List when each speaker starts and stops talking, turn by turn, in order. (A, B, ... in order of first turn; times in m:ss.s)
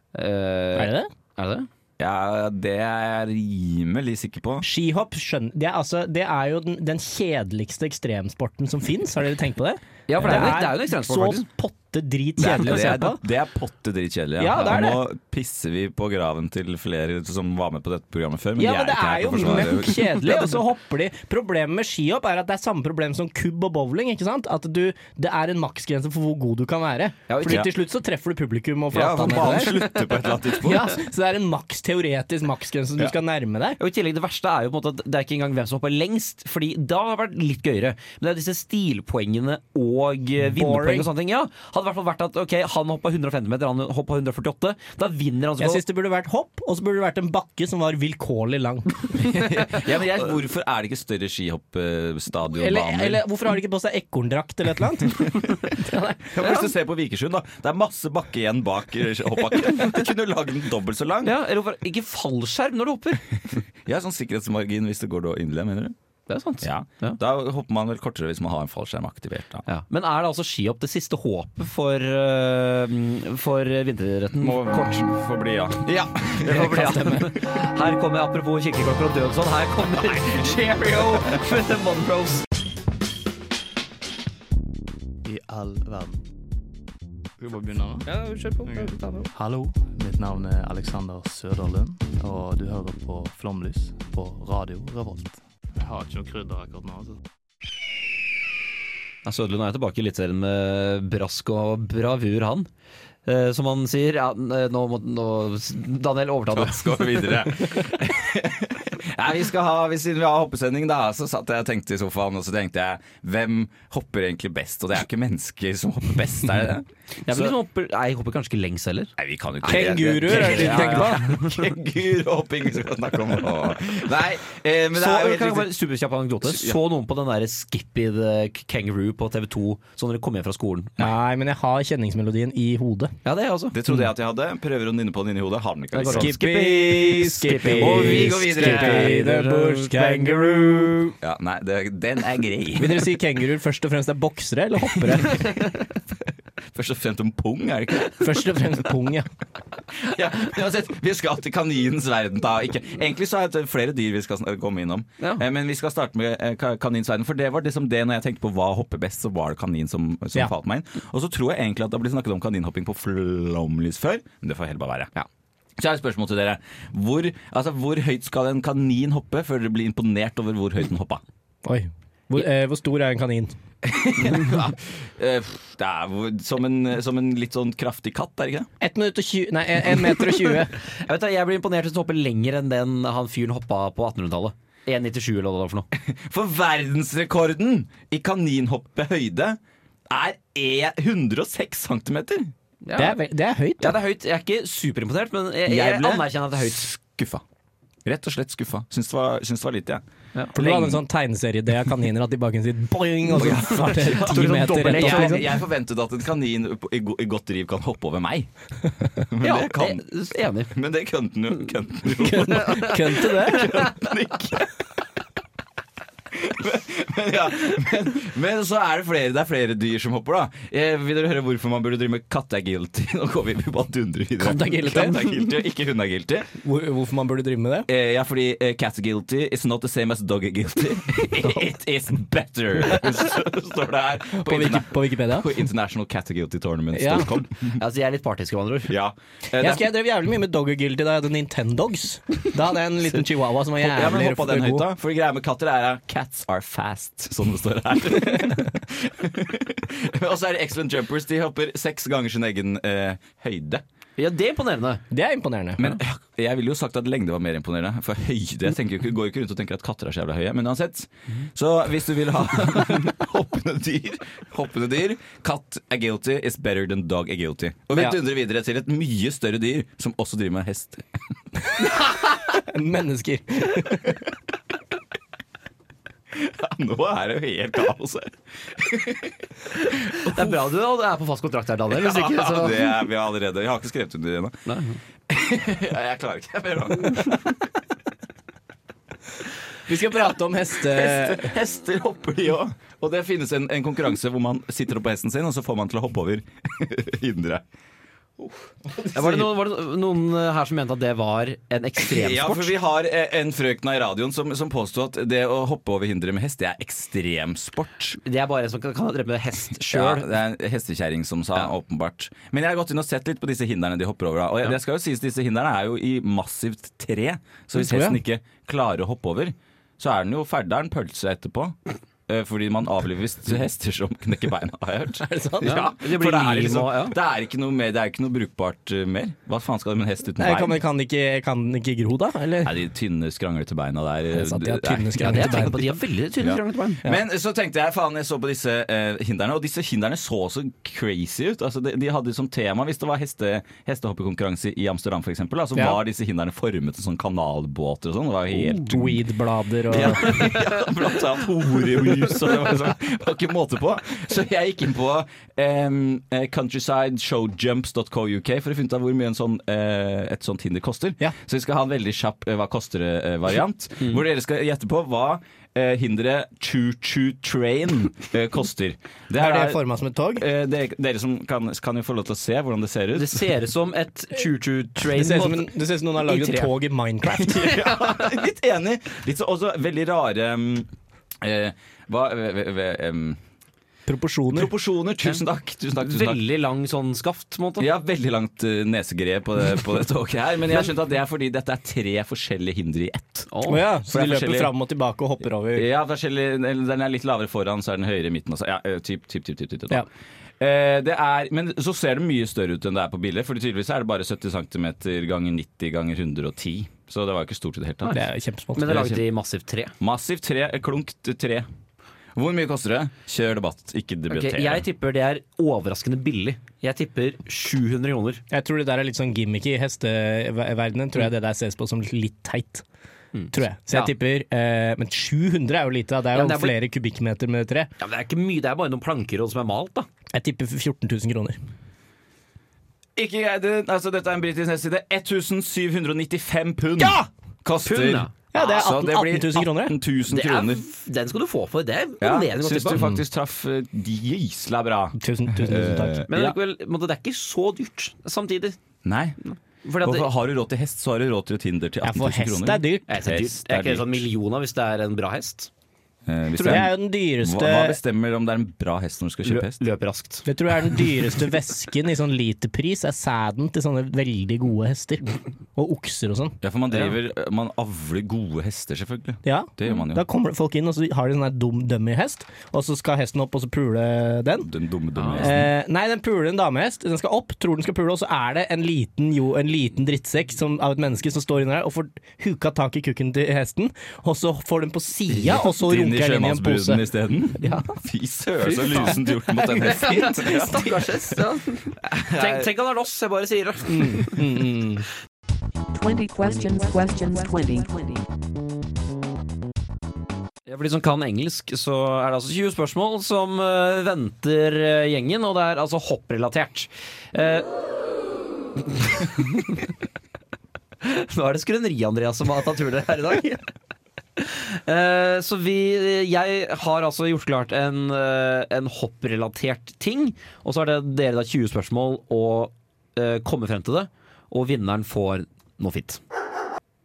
0:00.1-0:01.7 A
0:00.8-0:01.1 B
0:02.0-0:04.6 C
0:04.6-0:13.2 B
0:10.1-0:11.4 A
0:12.4-0:20.4 C
0:14.4-0:15.0 B
0:18.6-0:33.8 B
0:27.3-0:27.7 A
0:27.4-0:27.7 C
0:28.9-0:31.0 C
0:33.8-0:45.8 A
0:40.4-0:41.1 B
0:45.6-0:49.3 B
0:49.2-0:53.2 C
0:52.5-0:56.6 B
0:56.3-1:01.4 C
1:01.2-1:03.2 A
1:03.8-1:05.9 C
1:06.3-1:07.2 A
1:06.6-1:09.6 C
1:09.6-1:15.1 A
1:14.4-1:17.2 C
1:16.4-1:22.4 A
1:25.2-1:26.2 D
1:27.4-1:28.1 D
1:28.1-1:29.3 A
1:28.6-1:37.2 D
1:39.2-1:42.7 A
1:43.2-1:47.3 A
1:46.5-1:57.5 C
1:57.2-1:59.1 A
1:59.2-2:05.7 C
1:59.6-2:01.6 A
1:59.6-2:01.3 B
2:04.9-2:10.9 A
2:06.4-2:06.8 C
2:11.0-2:13.1 B
2:13.2-2:13.8 A
2:13.7-2:16.4 C
2:15.9-2:20.9 A
2:16.0-2:21.1 B
2:17.2-2:19.2 C
2:21.2-2:23.1 C
2:22.8-2:25.6 B
2:26.7-2:28.6 C
2:28.2-2:29.3 B
2:30.0-2:45.1 C
2:45.8-2:51.2 C
2:51.6-2:53.5 B
2:53.8-2:58.7 C
2:58.8-3:00.8 B
3:00.9-3:05.9 A
3:05.9-3:12.5 C
3:12.8-3:13.2 A
3:13.0-3:14.0 B
3:13.8-3:16.9 A
3:15.6-3:17.4 C
3:18.0-3:21.0 C
3:20.5-3:25.5 B
3:23.3-3:28.5 C
3:23.4-3:25.4 A
3:29.2-3:30.0 C
3:29.4-3:30.7 A
3:30.6-3:34.7 C
3:32.2-3:33.9 B
3:36.3-3:46.5 C
3:44.4-3:45.3 B
3:46.6-3:47.9 B
3:47.9-3:57.8 C
3:54.3-3:55.6 B
3:56.9-3:57.3 B
3:57.8-3:58.9 A
3:58.9-3:59.9 C
3:59.6-4:04.9 B
4:03.8-4:13.8 C
4:14.2-4:15.0 A
4:15.1-4:15.8 B
4:15.8-4:31.2 C
4:32.0-4:34.2 B
4:36.3-4:40.5 C
4:40.2-4:42.9 A
4:41.9-4:44.6 C
4:44.6-4:45.0 A
4:45.3-4:47.6 C
4:49.9-4:51.6 B
4:50.8-4:57.6 C
4:59.0-4:59.5 C
4:59.1-5:02.7 A
5:02.0-5:08.2 C
5:08.2-5:10.3 A
5:09.8-5:21.8 C
5:17.7-5:18.2 B
5:22.3-5:30.8 C
5:25.2-5:25.8 B
5:25.6-5:27.2 A
5:30.4-5:32.8 B
5:32.6-5:35.8 C
5:34.3-5:35.9 B
5:35.2-5:37.0 A
5:36.4-5:49.2 C
5:48.6-5:50.5 B
5:49.9-6:09.8 C
6:09.4-6:10.4 B
6:10.4-6:13.4 C
6:13.1-6:16.7 A
6:15.1-6:17.8 B
6:17.4-6:20.9 C
6:21.4-6:23.4 C
6:24.1-6:24.7 B
6:24.5-6:26.4 C
6:26.0-6:27.9 A
6:27.8-6:33.5 C
6:33.5-6:33.8 A
6:33.7-6:35.8 B
6:34.1-6:34.7 C
6:35.7-6:40.0 C
6:40.6-6:48.2 C
6:48.1-6:49.0 B
6:48.8-6:49.9 A
6:48.8-6:49.2 C
6:50.0-6:51.7 C
6:52.3-6:54.8 C
6:54.3-6:58.4 A
6:58.5-7:02.8 B
7:03.3-7:04.1 A
7:03.5-7:07.9 B
7:06.3-7:06.7 A
7:08.0-7:10.1 A
7:10.3-7:11.6 B
7:13.2-7:20.8 C
7:17.8-7:18.9 A
7:18.5-7:20.0 B
7:20.3-7:23.0 A
7:22.2-7:26.5 C
7:25.2-7:26.3 B
7:26.3-7:28.8 A
7:29.0-7:29.4 C
7:29.4-7:30.3 A
7:30.0-7:34.3 C
7:32.0-7:33.2 B
7:33.1-7:35.7 A
7:36.3-7:39.8 C
7:36.5-7:36.8 A
7:36.6-7:38.0 B
7:39.4-7:40.4 A
7:40.4-7:46.6 B
7:46.6-7:50.2 C
7:49.4-7:54.7 B
7:54.6-7:55.7 C
7:55.4-8:07.0 B
8:05.3-8:11.4 C
8:08.7-8:14.4 A
8:12.0-8:12.7 C
8:13.9-8:15.1 B
8:15.9-8:18.2 E
8:20.7-8:27.7 A
8:28.9-8:29.8 A
8:31.0-8:33.6 A
8:34.4-8:46.2 A